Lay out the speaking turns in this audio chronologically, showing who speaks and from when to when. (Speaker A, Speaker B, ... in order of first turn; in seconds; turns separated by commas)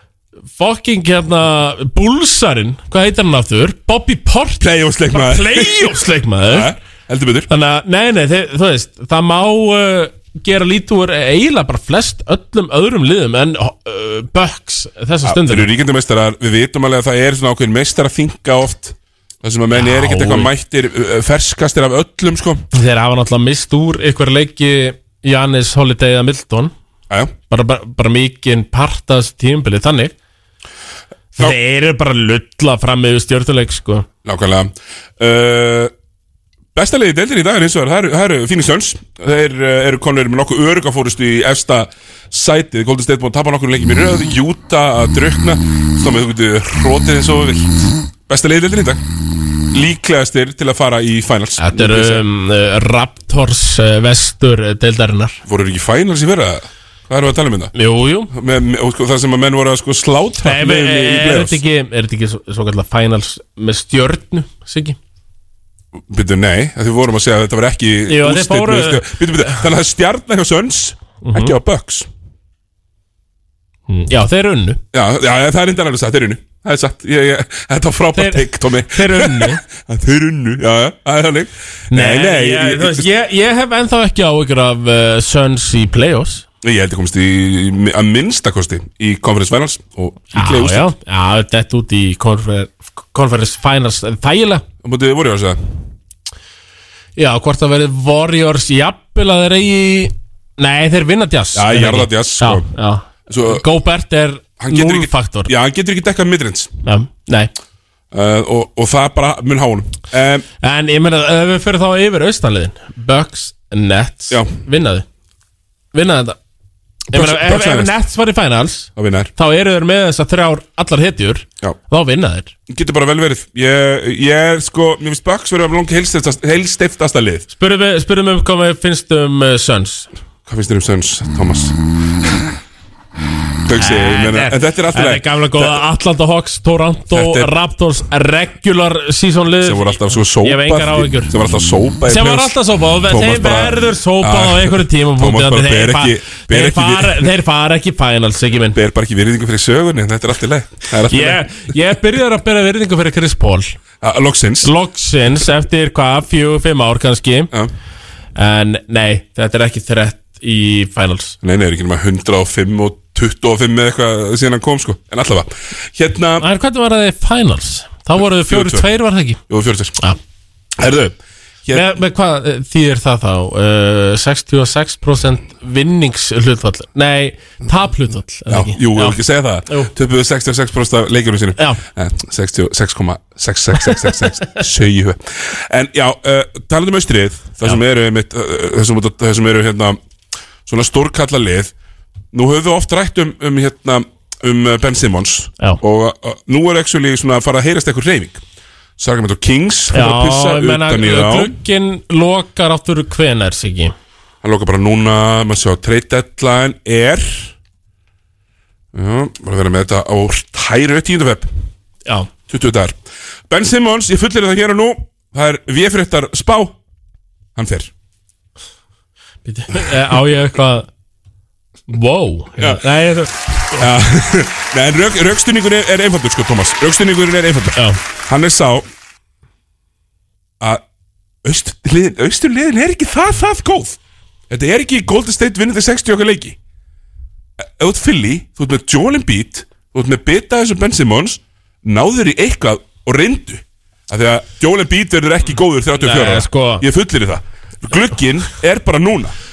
Speaker A: 0.6-6.7, Speaker B: 4.6-7.5, Speaker A: 7.5-15.7, Speaker B: 15.2-22.6, Speaker A: 19.7-20.5, Speaker A: 22.7-26.7, Speaker A: 27.5-30.1, Speaker A: 31.4-34.1, Speaker B: 34.2-35.9, Speaker B: 36.8-49.0, Speaker B: 49.7-52.2, Speaker A: 51.6-55.4, Speaker B: 55.5-57.7, Speaker A: 57.7-58.3, Speaker B: 58.3-61.6, Speaker A: 60.4-65.0, Speaker B: 66.0-72.1, Speaker A: 68.1-69.6, Speaker A: 71.2-71.5, Speaker A: 73.9-74.8, Speaker B: 74.9-83.1, Speaker A: 78.2-79.6, Speaker A: 81.9-86.5, Speaker B: 86.6-90.9, Speaker A: 90.3-94.7, Speaker B: 94.8-95.8, Speaker A: 97.2-105.5, Speaker B: 101.5-102.7, Speaker B: 103.3-103.7, Speaker B: 104.6-106.7, Speaker A: 106.8-107.5, Speaker B: 108.1-110.5, Speaker A: 110.6-115.1, Speaker A: 115.9-116.4, Speaker B: 117.1-117.9, Speaker A: 117.1-122.5, Speaker B: 119.0-119.3, Speaker B: 122.7-127.5, Speaker A: 127.5-130.1, Speaker B: 130.5-132.5, Speaker B: 133.7-135.8, Speaker A: 133.8-141.3, Speaker B: 137.1-137.5, Speaker B: 139.6-142.6, Speaker A: 142.1-148.8, Speaker B: 143.1-147.3, Speaker B: 148.7-151.4, Speaker A: 151.1-153.8, Speaker B: 154.0-154.7, Speaker A: 154.6-157.5, Speaker A: 158.4-161.4, Speaker B: 161.4-166.4, Speaker A: 166.4-169.4, Speaker B: 168.4-168.8, Speaker B: 169.5-170.0, Speaker B: 170.8-171.9, Speaker A: 171.7-179.9, Speaker B: 178.5-190.0, Speaker A: 183.8-184.1, Speaker B: 190.7-191.7, Speaker B: 192.3-198.4, Speaker B: 199.0-201.6, Speaker A: 199.9-203.9, Speaker B: 204.4-207.5, Speaker B: 208.9-211.5, Speaker B: 212.5-213.0, Speaker B: 213.5-216.8, Speaker B: 217.6-217.9, Speaker A: 219.4-220.9, Speaker A: 221.9-223.9, Speaker B: 223.8-228.9, Speaker B: 231.4-234.0, Speaker B: 234.5-236.6, Speaker B: 237.6-249.3, Speaker A: 246.0-246.8